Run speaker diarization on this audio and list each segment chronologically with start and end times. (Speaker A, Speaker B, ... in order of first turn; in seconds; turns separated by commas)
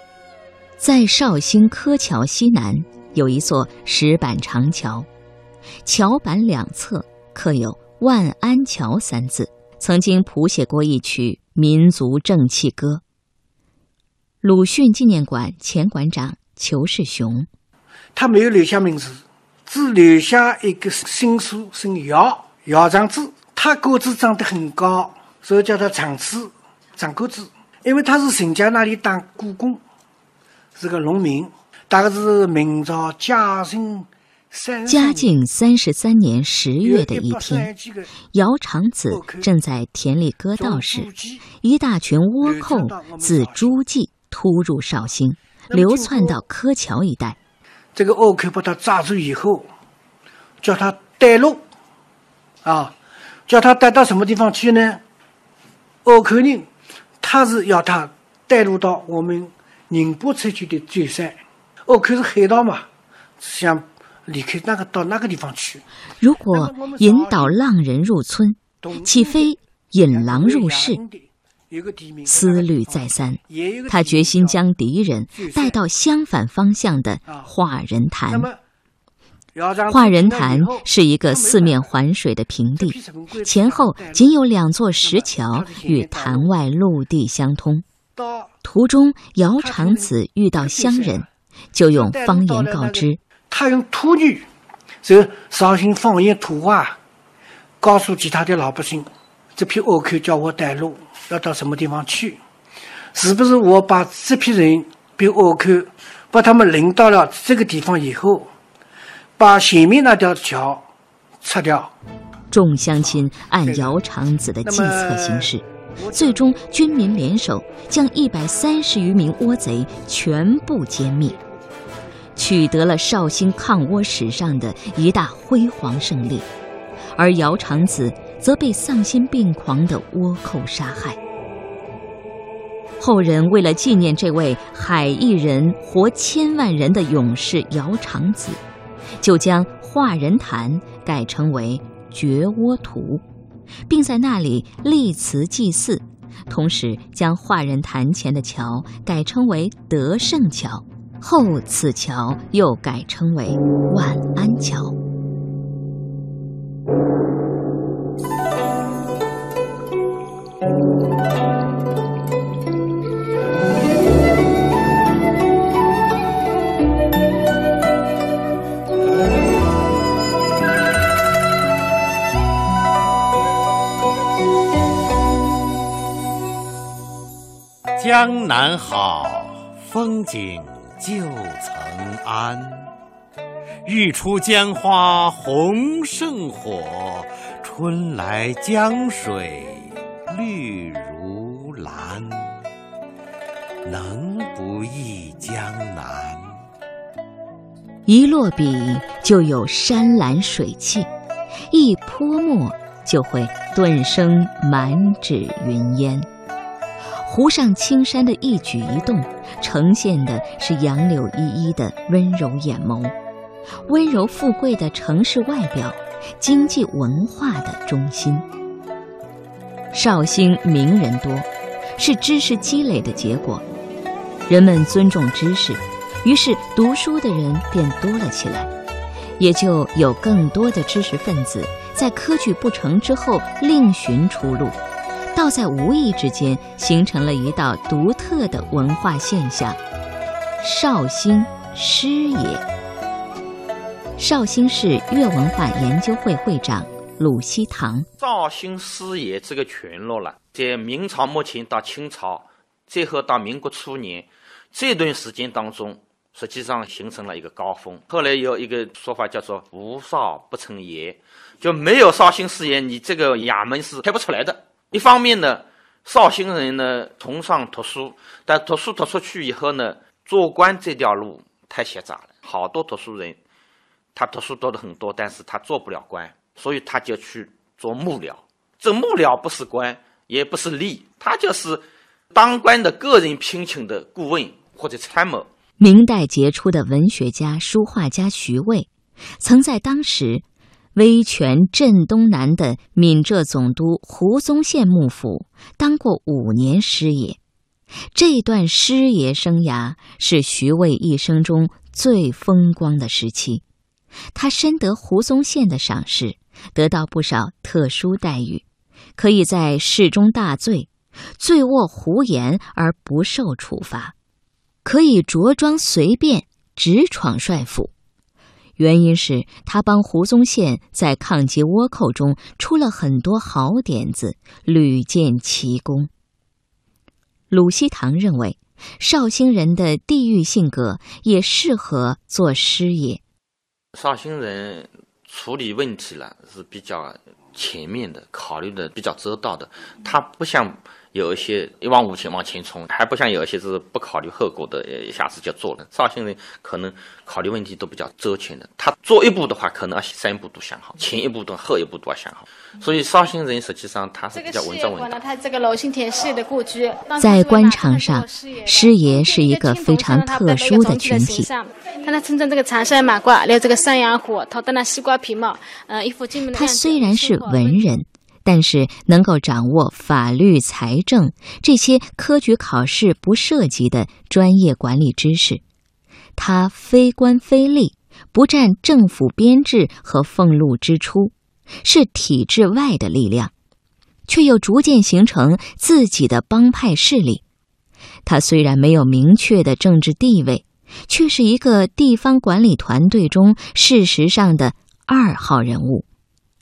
Speaker A: 0.8-5.1, Speaker A: 5.8-13.0, Speaker A: 14.4-17.5, Speaker B: 18.1-29.8, Speaker B: 30.8-35.3, Speaker A: 34.9-37.7, Speaker B: 36.8-38.1, Speaker A: 38.2-47.4, Speaker B: 39.1-39.5, Speaker B: 40.5-41.5, Speaker B: 42.4-43.8, Speaker B: 45.7-46.4, Speaker B: 47.9-49.6, Speaker B: 50.6-51.6, Speaker B: 52.6-52.9, Speaker B: 53.5-55.0, Speaker B: 56.0-56.7, Speaker B: 57.2-62.9, Speaker B: 63.4-65.8, Speaker A: 66.2-71.0, Speaker B: 66.5-67.5, Speaker B: 68.8-74.6, Speaker A: 72.2-78.5, Speaker B: 75.3-75.8, Speaker B: 78.3-78.6, Speaker B: 79.5-81.9, Speaker A: 79.9-87.8, Speaker B: 82.8-84.3, Speaker B: 85.0-86.5, Speaker B: 88.1-88.5, Speaker A: 88.6-93.2, Speaker B: 89.6-91.3, Speaker B: 91.9-94.5, Speaker B: 95.0-97.0, Speaker B: 97.8-102.4, Speaker B: 103.1-108.5, Speaker B: 109.4-110.8, Speaker B: 111.4-111.9, Speaker A: 112.5-121.3, Speaker B: 113.6-114.0, Speaker B: 114.6-116.5, Speaker A: 122.3-126.5, Speaker A: 127.2-131.2, Speaker A: 133.0-138.6, Speaker A: 139.2-143.2, Speaker A: 143.9-155.0, Speaker C: 177.9-182.9, Speaker C: 183.8-192.5, Speaker C: 193.8-196.6, Speaker A: 198.1-201.1, Speaker A: 201.7-206.3, Speaker A: 207.2-213.1, Speaker A: 213.8-218.4, Speaker A: 219.9-223.6, Speaker A: 224.5-228.7, Speaker A: 229.4-234.8, Speaker A: 235.3-239.8, Speaker A: 240.6-242.6, Speaker A: 244.2-248.1, Speaker D: 248.2-273.4, Speaker D: 274.1-281.8, Speaker D: 282.3-285.5, Speaker A: 285.8-288.9, Speaker A: 289.4-297.4, Speaker A: 298.1-303.6, Speaker A: 304.3-308.6, Speaker A: 309.2-314.1, Speaker A: 314.8-317.9, Speaker A: 318.8-326.1, Speaker A: 327.5-333.2, Speaker D: 333.9-355.2, Speaker E: 354.3-367.9, Speaker A: 357.2-361.5, Speaker A: 366.5-375.6, Speaker A: 376.4-383.5, Speaker A: 384.3-387.4, Speaker A: 388.2-396.1